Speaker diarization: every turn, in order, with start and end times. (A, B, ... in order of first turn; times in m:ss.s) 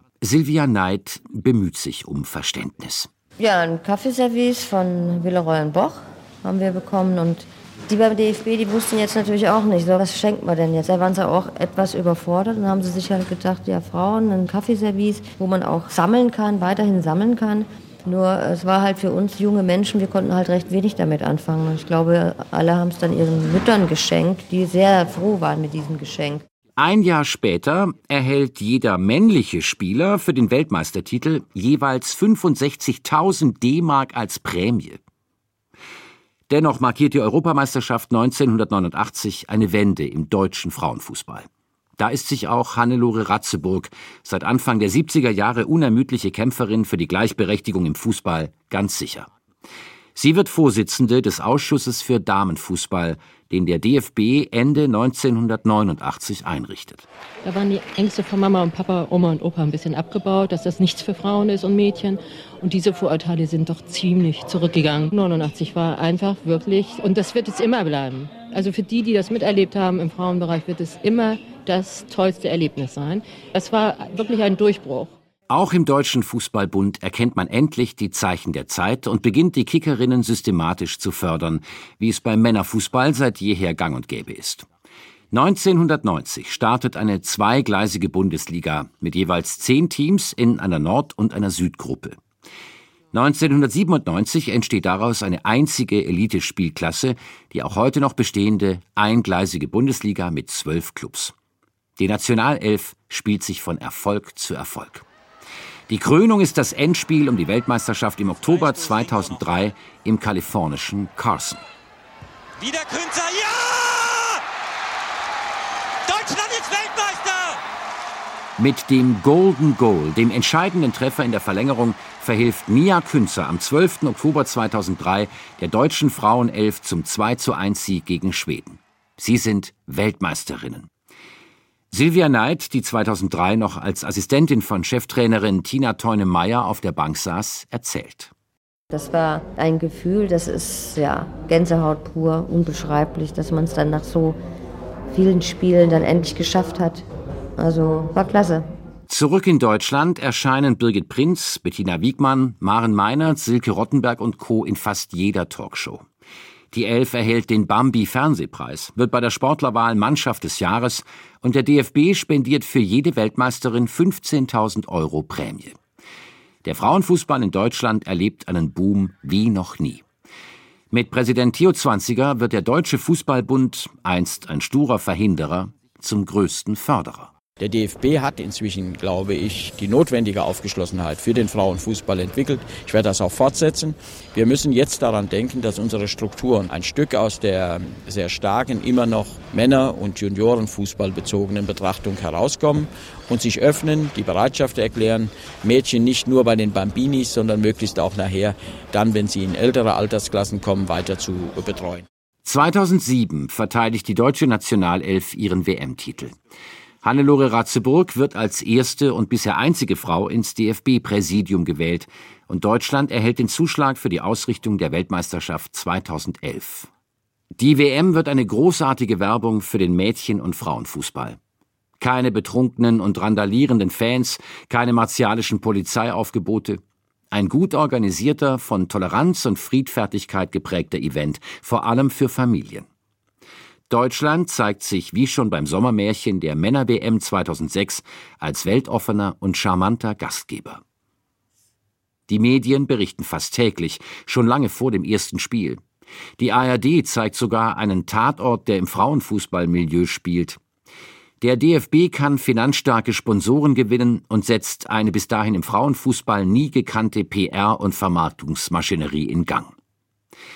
0:00.2-0:03.1 A
0:03.4-0:26.4 B
0:26.8-0:35.0 A
0:36.5-0:49.3 A
0:50.1-0:57.0 A
0:57.4-1:15.2 C
1:15.5-1:24.6 A
1:25.3-1:32.2 A
1:33.1-1:41.3 A
1:42.0-1:45.0 A
1:45.9-1:51.6 A
1:52.6-1:54.4 D
1:56.0-1:57.6 D
1:58.6-2:10.9 A
2:11.9-2:18.3 A
2:18.9-2:24.4 B
2:25.1-2:27.0 B
2:27.6-2:28.7 B
2:29.1-2:36.0 A
2:36.7-2:45.7 A
2:46.6-2:50.0 A
2:50.9-2:57.3 A
2:57.6-3:22.0 E
3:22.4-3:26.4 A
3:27.0-3:36.9 A
3:37.6-3:41.4 A
3:42.0-3:46.8 A
3:47.3-3:52.9 A
3:53.9-4:00.8 A
4:02.3-4:05.8 A
4:06.4-4:10.6 A
4:11.4-4:19.7 A